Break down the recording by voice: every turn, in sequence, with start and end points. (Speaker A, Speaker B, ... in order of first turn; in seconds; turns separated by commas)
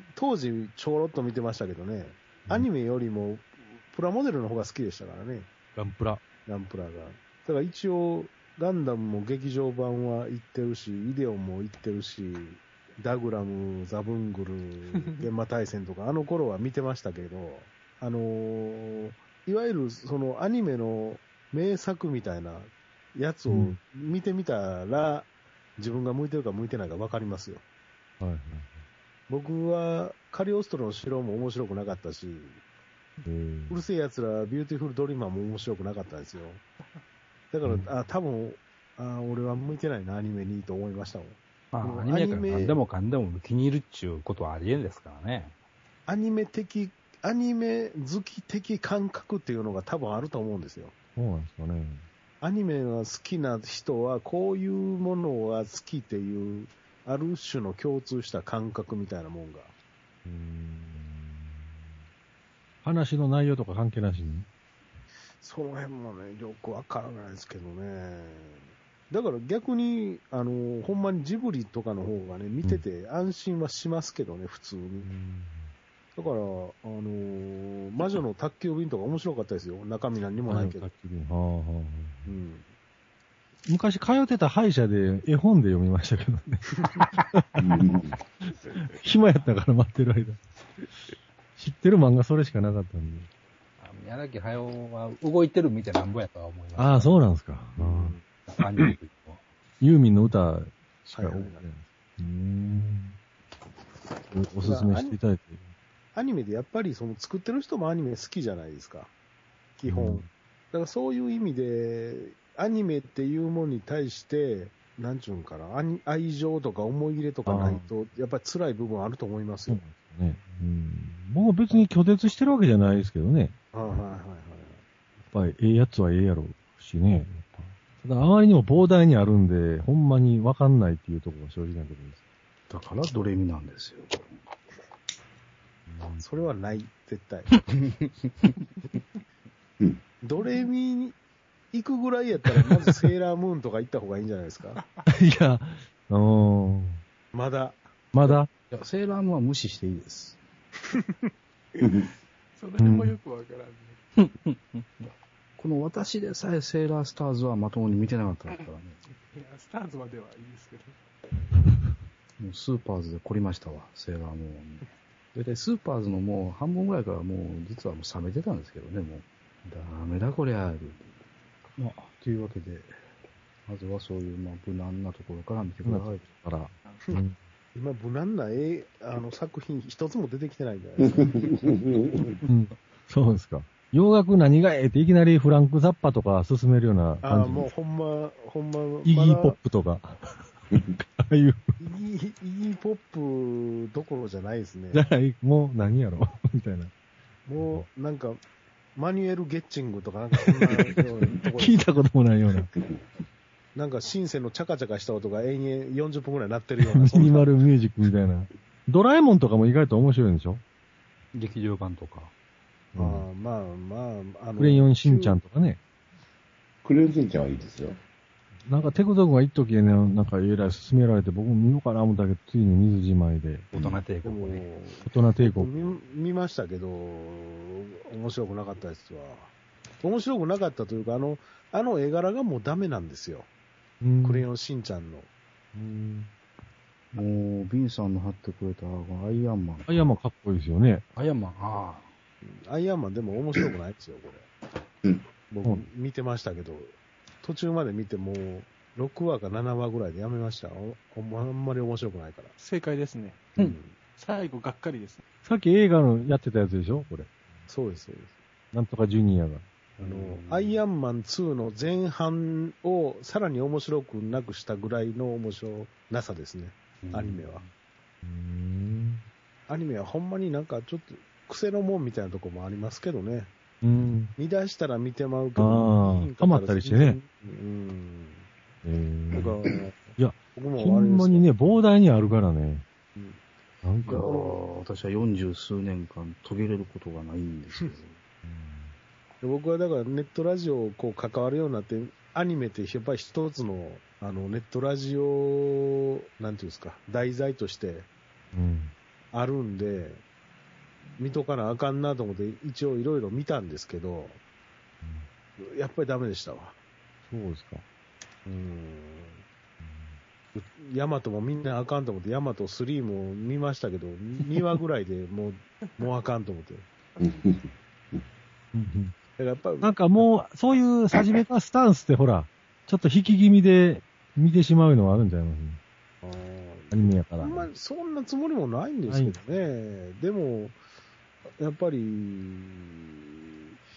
Speaker A: 0.1-5.5, Speaker B: 5.8-6.2, Speaker A: 6.5-27.6, Speaker B: 23.5-23.8, Speaker B: 28.2-28.8, Speaker A: 29.3-32.6, Speaker B: 33.2-33.8, Speaker A: 33.7-36.6, Speaker A: 37.5-42.8, Speaker C: 41.7-45.5, Speaker A: 46.1-50.9, Speaker B: 51.1-52.0, Speaker A: 52.4-59.7, Speaker B: 60.2-61.6, Speaker B: 62.8-64.5, Speaker A: 65.4-75.1, Speaker B: 75.0-75.7, Speaker A: 76.2-80.9, Speaker B: 80.5-82.3, Speaker A: 82.3-82.6, Speaker B: 83.7-86.7, Speaker B: 87.3-88.0, Speaker D: 87.6-88.2, Speaker B: 88.7-90.4, Speaker B: 91.6-93.3, Speaker C: 93.8-97.2, Speaker B: 96.8-98.1, Speaker A: 97.8-98.2, Speaker C: 98.5-99.4, Speaker B: 99.8-103.2, Speaker A: 101.1-101.6, Speaker B: 104.3-105.6, Speaker A: 104.6-105.2, Speaker A: 106.1-109.1, Speaker A: 109.8-119.8, Speaker B: 109.9-110.3, Speaker B: 117.5-117.8, Speaker B: 119.7-123.5, Speaker A: 123.7-124.8, Speaker B: 125.3-132.2, Speaker E: 132.7-134.3, Speaker B: 135.9-136.2, Speaker A: 136.2-137.5, Speaker A: 140.2-141.2, Speaker A: 141.7-144.8, Speaker F: 144.8-145.0, Speaker B: 145.1-147.0, Speaker A: 147.3-147.8, Speaker B: 148.1-148.5, Speaker E: 148.7-150.4, Speaker A: 150.9-151.3, Speaker F: 152.6-154.0, Speaker B: 152.8-153.2, Speaker C: 154.2-154.8, Speaker E: 155.6-159.0, Speaker F: 159.2-160.9, Speaker E: 162.4-171.1, Speaker E: 171.8-172.9, Speaker E: 173.7-176.3, Speaker B: 175.8-177.4, Speaker A: 177.8-181.5, Speaker D: 181.2-182.3, Speaker B: 182.4-187.7, Speaker A: 187.2-189.6, Speaker B: 189.0-190.2, Speaker B: 191.2-191.8, Speaker A: 191.8-195.1, Speaker B: 194.9-196.9, Speaker A: 197.4-198.4, Speaker B: 197.6-197.9, Speaker A: 198.9-201.8, Speaker B: 200.5-200.9, Speaker B: 201.6-202.7, Speaker A: 203.7-207.4, Speaker B: 206.8-210.6, Speaker C: 211.3-212.3, Speaker B: 212.9-213.2, Speaker A: 212.9-215.4, Speaker B: 214.6-215.8, Speaker D: 216.8-218.0, Speaker B: 218.7-223.7, Speaker C: 223.7-224.6, Speaker A: 224.2-229.5, Speaker B: 225.0-225.9, Speaker A: 230.0-233.5, Speaker B: 234.0-234.4, Speaker A: 234.2-235.3, Speaker B: 235.7-236.3, Speaker E: 237.1-240.1, Speaker B: 239.9-241.0, Speaker E: 241.2-242.0, Speaker A: 242.4-244.4, Speaker A: 245.5-252.5, Speaker F: 252.6-253.4, Speaker A: 253.6-253.9, Speaker F: 254.2-255.2, Speaker B: 255.4-257.3, Speaker A: 257.7-258.4, Speaker B: 258.7-259.6, Speaker C: 260.0-260.8, Speaker A: 260.0-267.6, Speaker C: 267.0-267.7, Speaker B: 268.2-269.2, Speaker A: 269.7-273.5, Speaker B: 273.8-274.3, Speaker A: 274.4-278.4, Speaker B: 275.6-277.2, Speaker B: 278.8-279.5, Speaker A: 279.3-281.5, Speaker B: 280.2-282.8, Speaker B: 283.8-284.2, Speaker A: 284.0-284.6, Speaker E: 284.1-288.1, Speaker B: 288.4-288.9, Speaker A: 289.4-298.1, Speaker B: 298.5-298.9, Speaker A: 299.3-300.2, Speaker A: 301.2-304.4, Speaker A: 305.6-306.8, Speaker B: 307.3-307.8, Speaker A: 308.4-309.4, Speaker B: 309.8-310.1, Speaker A: 310.5-316.9, Speaker D: 317.2-318.2, Speaker B: 318.7-319.1, Speaker A: 319.4-319.9, Speaker B: 319.8-325.8, Speaker D: 321.1-321.4, Speaker A: 326.2-330.8, Speaker B: 326.9-327.7, Speaker B: 329.1-329.4, Speaker A: 331.6-333.6